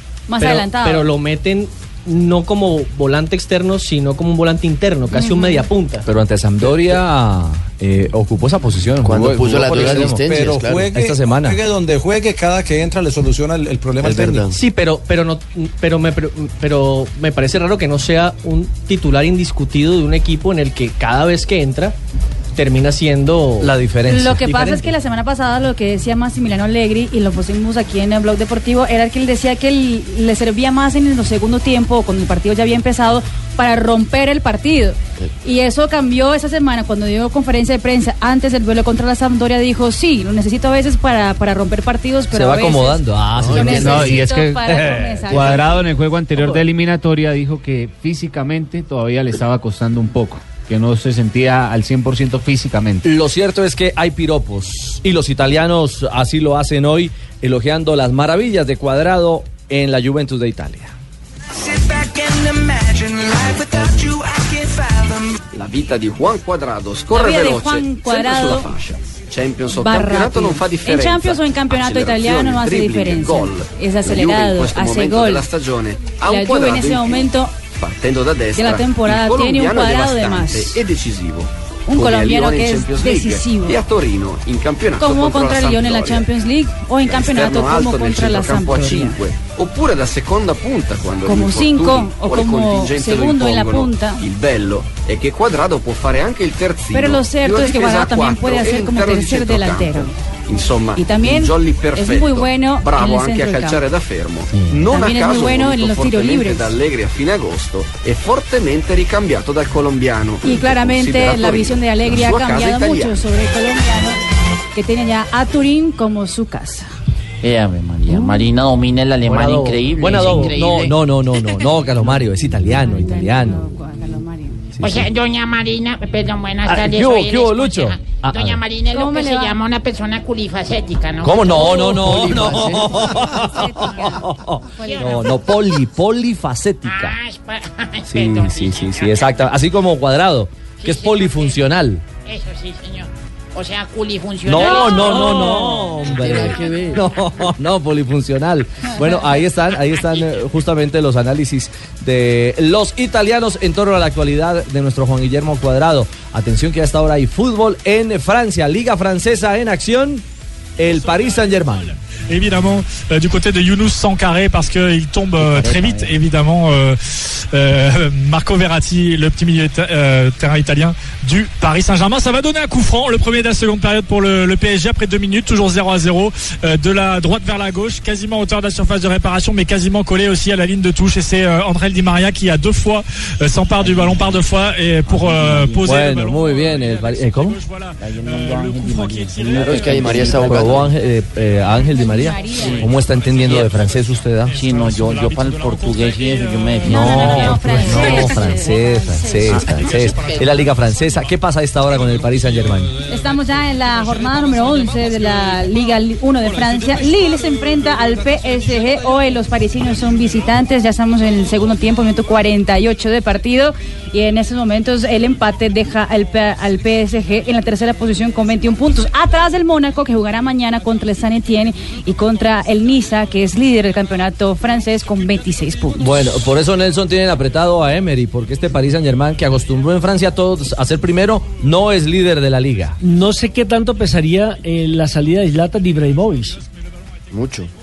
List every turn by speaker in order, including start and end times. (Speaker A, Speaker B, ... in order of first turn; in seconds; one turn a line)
Speaker A: 0.3-1.1
Speaker B: 0.4-6.1
Speaker A: 5.2-5.5
Speaker C: 6.1-10.3
Speaker D: 9.0-10.9
Speaker E: 9.7-14.5
Speaker C: 10.9-11.6
Speaker D: 14.0-14.6
Speaker B: 14.5-21.9
Speaker B: 22.5-23.7
Speaker C: 23.6-24.5
Speaker A: 24.1-45.8
Speaker B: 24.4-24.8
Speaker C: 42.3-44.0
Speaker D: 43.3-44.2
Speaker F: 43.7-53.0
Speaker C: 53.0-60.9
Speaker G: 65.5-86.2
Speaker A: 67.1-68.7
Speaker A: 69.7-75.5
Speaker A: 76.2-77.6
Speaker A: 78.5-80.8
Speaker A: 81.9-83.8
Speaker A: 85.0-89.2
Speaker G: 87.0-113.2
Speaker A: 91.2-94.2
Speaker A: 96.9-100.1
Speaker A: 101.0-103.8
Speaker H: 104.5-104.8
Speaker A: 104.9-106.7
Speaker A: 110.4-114.2
Speaker A: 114.7-116.9
Speaker H: 117.4-121.0
Speaker C: 119.3-123.6
Speaker A: 122.7-124.6
Speaker C: 124.8-125.1
Speaker I: 124.8-132.2
Speaker C: 126.7-128.6
Speaker A: 128.9-129.6
Speaker C: 131.2-137.2
Speaker D: 131.8-132.9
Speaker A: 133.2-135.3
Speaker I: 133.8-134.2
Speaker I: 134.8-135.3
Speaker I: 136.8-139.0
Speaker C: 138.1-142.0
Speaker I: 140.8-141.6
Speaker I: 142.2-147.0
Speaker C: 144.4-160.2
Speaker D: 146.2-146.9
Speaker C: 160.8-161.9
Speaker J: 160.8-190.0
Speaker H: 165.4-166.1
Speaker H: 183.8-184.1
Speaker H: 185.1-185.9
Speaker C: 185.8-187.6
Speaker H: 188.0-190.8
Speaker D: 189.7-190.8
Speaker C: 190.4-194.5
Speaker A: 191.8-192.9
Speaker H: 192.6-193.8
Speaker J: 193.8-197.1
Speaker H: 194.5-198.6
Speaker A: 196.8-199.7
Speaker C: 196.9-202.9
Speaker H: 199.5-200.6
Speaker J: 199.6-201.3
Speaker A: 203.1-226.1
Speaker J: 204.0-205.4
Speaker C: 225.9-233.0
Speaker K: 233.0-236.6
Speaker D: 237.3-237.7